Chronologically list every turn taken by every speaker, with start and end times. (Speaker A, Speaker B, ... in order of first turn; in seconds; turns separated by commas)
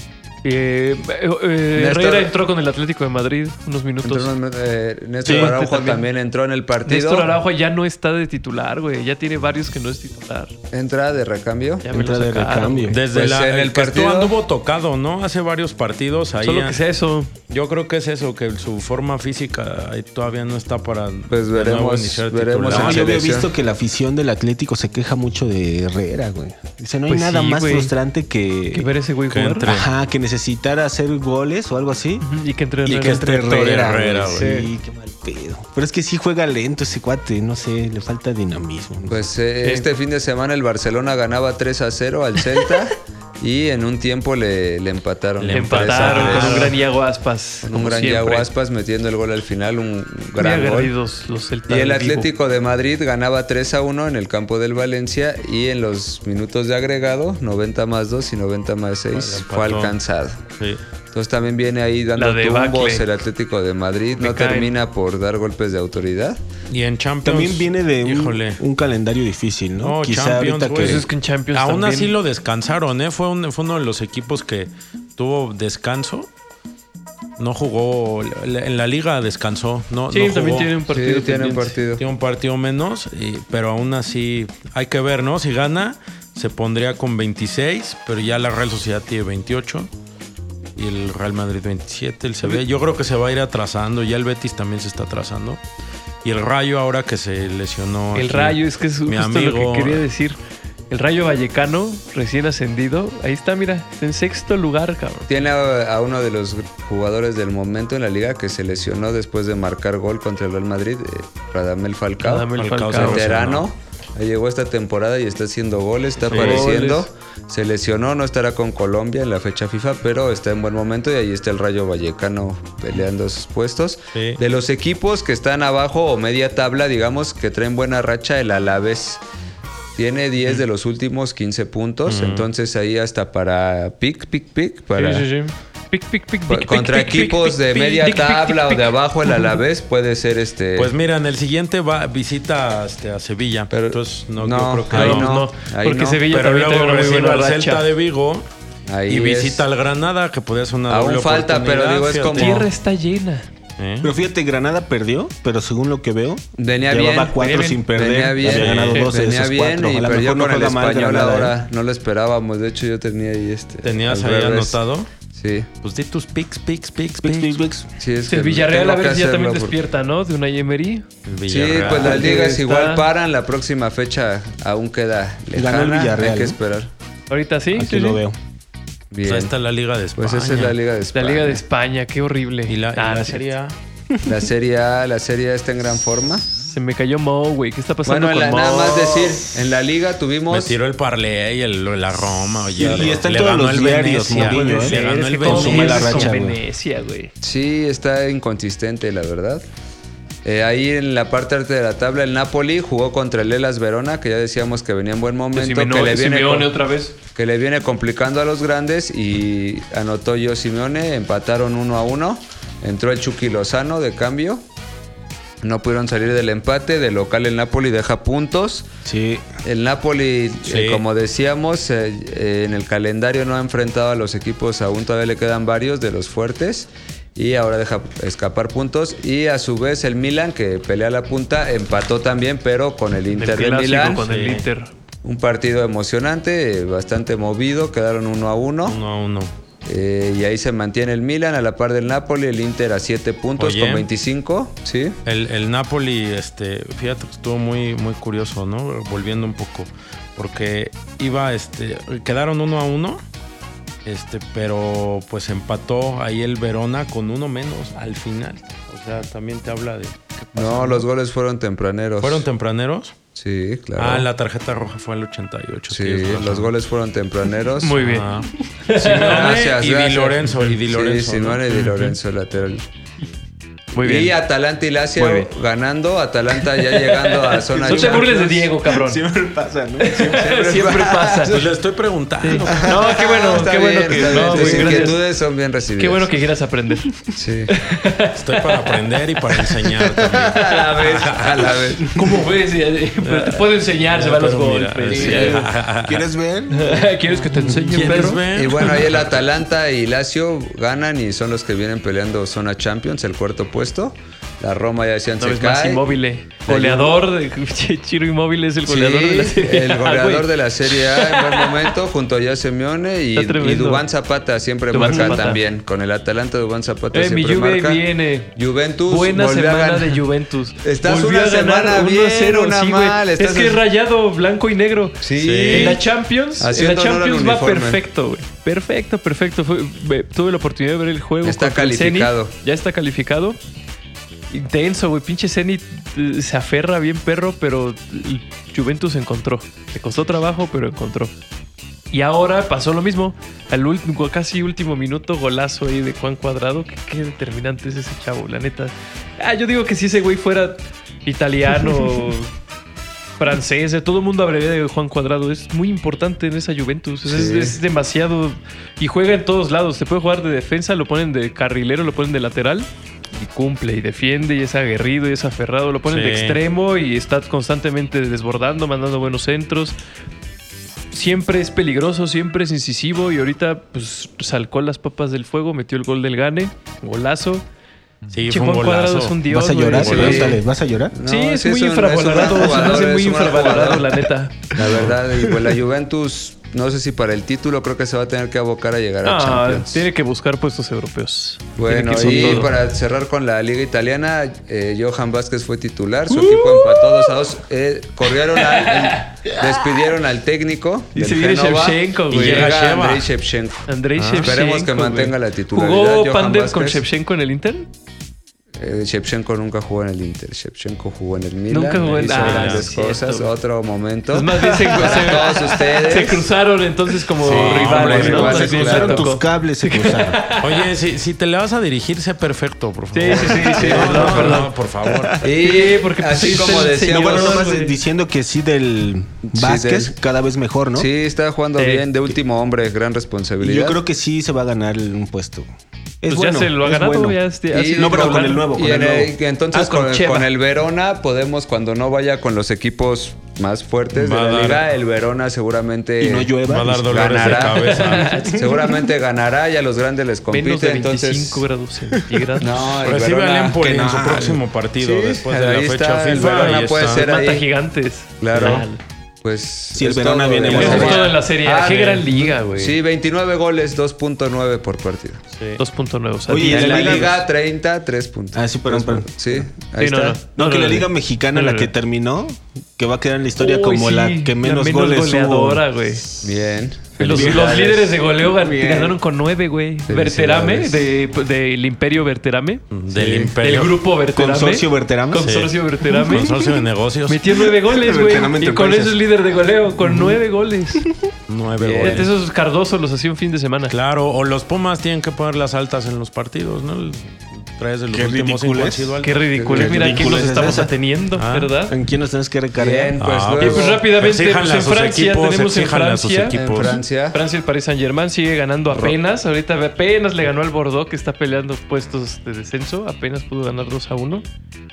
Speaker A: 0.4-4.3, Speaker B: 1.7-2.3, Speaker B: 4.0-7.3, Speaker A: 5.2-6.1, Speaker C: 5.2-5.5, Speaker A: 6.8-10.5, Speaker B: 10.7-11.9, Speaker A: 11.8-12.9, Speaker C: 11.9-13.0, Speaker D: 12.9-16.8, Speaker B: 13.1-14.4, Speaker A: 16.4-17.3, Speaker D: 17.5-23.2, Speaker B: 21.3-23.5, Speaker C: 22.7-28.9, Speaker A: 27.1-27.9, Speaker A: 28.7-29.7, Speaker D: 29.3-29.9, Speaker C: 29.6-32.3, Speaker A: 32.2-33.6, Speaker C: 32.9-39.2, Speaker D: 32.9-34.5, Speaker A: 34.3-34.7, Speaker B: 39.1-46.7, Speaker D: 45.4-46.8, Speaker A: 45.5-48.5, Speaker B: 47.6-50.9, Speaker A: 50.4-52.3, Speaker B: 51.7-60.4, Speaker D: 59.1-59.9, Speaker B: 61.1-66.4, Speaker A: 62.1-63.1, Speaker A: 64.2-64.7, Speaker D: 66.7-68.6, Speaker C: 67.2-71.0, Speaker D: 69.8-76.3, Speaker A: 70.8-72.1, Speaker D: 77.4-80.7, Speaker A: 80.1-81.8, Speaker B: 80.9-82.0, Speaker D: 82.0-89.9, Speaker D: 90.8-95.6, Speaker D: 96.2-100.0, Speaker A: 98.1-100.4, Speaker A: 100.9-105.3, Speaker B: 105.3-129.2, Speaker A: 112.2-113.3, Speaker D: 112.6-113.7, Speaker A: 116.2-117.1, Speaker D: 116.3-116.7, Speaker D: 124.1-124.4, Speaker B: 129.9-135.3, Speaker D: 132.1-132.5, Speaker A: 134.9-139.6, Speaker B: 136.5-140.9, Speaker D: 140.8-145.3, Speaker B: 143.7-146.2, Speaker A: 144.9-147.8, Speaker D: 146.3-148.5, Speaker B: 148.9-149.6, Speaker D: 149.1-152.7, Speaker B: 150.9-152.7, Speaker A: 152.3-153.5, Speaker D: 153.8-154.1, Speaker C: 154.0-161.5, Speaker B: 156.6-164.8, Speaker A: 157.4-157.8, Speaker D: 158.4-159.0, Speaker D: 163.8-165.1, Speaker B: 165.3-165.7, Speaker D: 165.8-167.6, Speaker C: 167.2-167.9, Speaker B: 168.0-169.8, Speaker A: 168.3-171.1, Speaker D: 171.2-172.2, Speaker B: 171.5-176.9, Speaker A: 171.9-173.1, Speaker C: 175.6-176.6, Speaker A: 177.3-178.2, Speaker C: 177.7-178.3, Speaker B: 179.1-179.5, Speaker D: 179.2-180.8, Speaker B: 180.2-181.6, Speaker A: 181.1-183.4, Speaker D: 182.7-183.7, Speaker B: 184.2-186.5, Speaker A: 186.6-189.5, Speaker B: 188.0-190.8, Speaker D: 190.5-196.4, Speaker C: 192.7-196.6, Speaker B: 192.8-193.2, Speaker A: 194.3-197.3, Speaker B: 197.4-199.6, Speaker B: 200.4-206.7, Speaker A: 205.5-207.2, Speaker B: 207.3-214.6, Speaker B: 215.6-218.9, Speaker C: 219.1-219.4, Speaker B: 219.6-234.2, Speaker D: 220.7-221.0, Speaker A: 233.3-234.9, Speaker D: 234.2-234.6, Speaker B: 235.2-239.0, Speaker D: 238.9-239.5, Speaker B: 239.8-245.2, Speaker D: 243.6-244.1, Speaker D: 245.2-253.2, Speaker D: 254.0-261.1, Speaker B: 260.5-262.5, Speaker D: 262.2-263.1, Speaker B: 263.3-264.3, Speaker D: 264.0-266.7, Speaker B: 265.9-268.0, Speaker A: 267.8-268.3, Speaker D: 268.0-272.0, Speaker A: 268.8-269.6, Speaker B: 269.0-272.8, Speaker A: 271.8-272.0, Speaker A: 273.9-274.4, Speaker B: 273.9-278.4, Speaker A: 275.2-275.5, Speaker A: 276.7-279.2, Speaker C: 277.7-280.6, Speaker A: 280.0-281.7, Speaker B: 280.3-281.7, Speaker D: 281.5-282.9, Speaker A: 282.4-285.2, Speaker B: 282.8-286.3, Speaker D: 284.2-285.1, Speaker A: 286.0-287.1, Speaker B: 287.3-287.7, Speaker A: 287.7-289.9, Speaker D: 288.3-291.8, Speaker B: 290.2-292.2, Speaker A: 292.1-295.7, Speaker D: 293.2-296.3, Speaker C: 295.1-298.3, Speaker B: 295.2-295.6, Speaker A: 296.7-298.4, Speaker D: 297.6-299.4, Speaker B: 298.4-306.1, Speaker A: 305.4-311.9, Speaker B: 306.7-307.2, Speaker B: 308.9-318.0, Speaker A: 313.3-314.0, Speaker A: 314.9-315.6, Speaker A: 317.1-318.5, Speaker B: 318.5-320.2, Speaker A: 319.1-333.6, Speaker B: 320.8-323.8, Speaker B: 325.2-326.0, Speaker D: 325.4-326.0, Speaker B: 326.6-328.0, Speaker B: 331.4-332.5, Speaker A: 334.5-341.3, Speaker A: 342.1-352.5, Speaker A: 353.4-369.9, Speaker B: 357.2-357.8, Speaker D: 366.1-366.6, Speaker A: 371.1-377.6, Speaker D: 378.3-380.5, Speaker A: 378.5-380.6, Speaker C: 379.5-381.1, Speaker B: 380.0-390.1, Speaker A: 381.2-384.7, Speaker A: 389.2-392.7, Speaker B: 391.8-403.9, Speaker C: 392.1-392.7, Speaker A: 396.3-397.3, Speaker A: 398.6-399.8, Speaker A: 401.1-402.7, Speaker D: 402.3-403.3, Speaker A: 403.9-407.9, Speaker D: 404.2-404.5, Speaker B: 404.4-407.0, Speaker B: 408.7-416.5, Speaker A: 411.7-413.5, Speaker D: 412.2-412.9, Speaker A: 414.3-420.9, Speaker D: 417.4-418.9, Speaker B: 417.4-419.3, Speaker C: 417.9-420.4, Speaker D: 420.6-425.5, Speaker A: 423.1-424.7, Speaker B: 423.3-424.7, Speaker C: 425.1-425.5, Speaker B: 425.4-427.7, Speaker A: 425.5-428.0, Speaker C: 427.0-431.1, Speaker B: 429.5-430.1, Speaker B: 430.9-434.0, Speaker A: 431.8-432.2, Speaker C: 433.6-435.7, Speaker C: 436.2-437.4, Speaker A: 436.3-438.7, Speaker B: 437.7-451.6, Speaker C: 437.9-439.3, Speaker A: 439.7-440.5, Speaker D: 444.1-444.8, Speaker C: 446.2-448.9, Speaker D: 446.6-448.4, Speaker A: 447.8-448.8, Speaker A: 450.5-452.9, Speaker B: 452.6-457.7, Speaker D: 453.0-457.2, Speaker C: 453.9-454.6, Speaker A: 456.4-459.0, Speaker B: 458.4-458.9, Speaker B: 459.4-465.4, Speaker C: 459.9-461.3, Speaker A: 460.6-463.0, Speaker D: 465.5-465.8, Speaker A: 465.8-467.3, Speaker C: 466.5-467.4, Speaker B: 466.6-470.4, Speaker C: 468.5-469.3, Speaker A: 470.0-471.9, Speaker C: 470.5-475.8, Speaker A: 473.6-476.3, Speaker B: 476.4-477.4, Speaker A: 477.2-482.8, Speaker D: 477.2-477.6, Speaker C: 477.2-479.2, Speaker B: 480.1-481.1, Speaker D: 482.9-484.0, Speaker B: 483.1-483.6, Speaker A: 483.6-486.5, Speaker C: 484.4-485.5, Speaker D: 485.4-487.4, Speaker C: 486.3-486.8, Speaker A: 487.3-491.0, Speaker C: 487.5-489.2, Speaker C: 490.0-490.4, Speaker D: 491.5-492.3, Speaker B: 491.8-492.3, Speaker A: 492.0-493.9, Speaker D: 493.9-499.3, Speaker C: 498.1-500.9, Speaker A: 499.2-501.9, Speaker D: 499.9-500.2, Speaker D: 501.4-501.7, Speaker C: 501.9-503.1, Speaker B: 502.7-504.0, Speaker D: 503.2-507.0, Speaker A: 503.6-506.6, Speaker B: 506.5-507.4, Speaker A: 507.3-514.4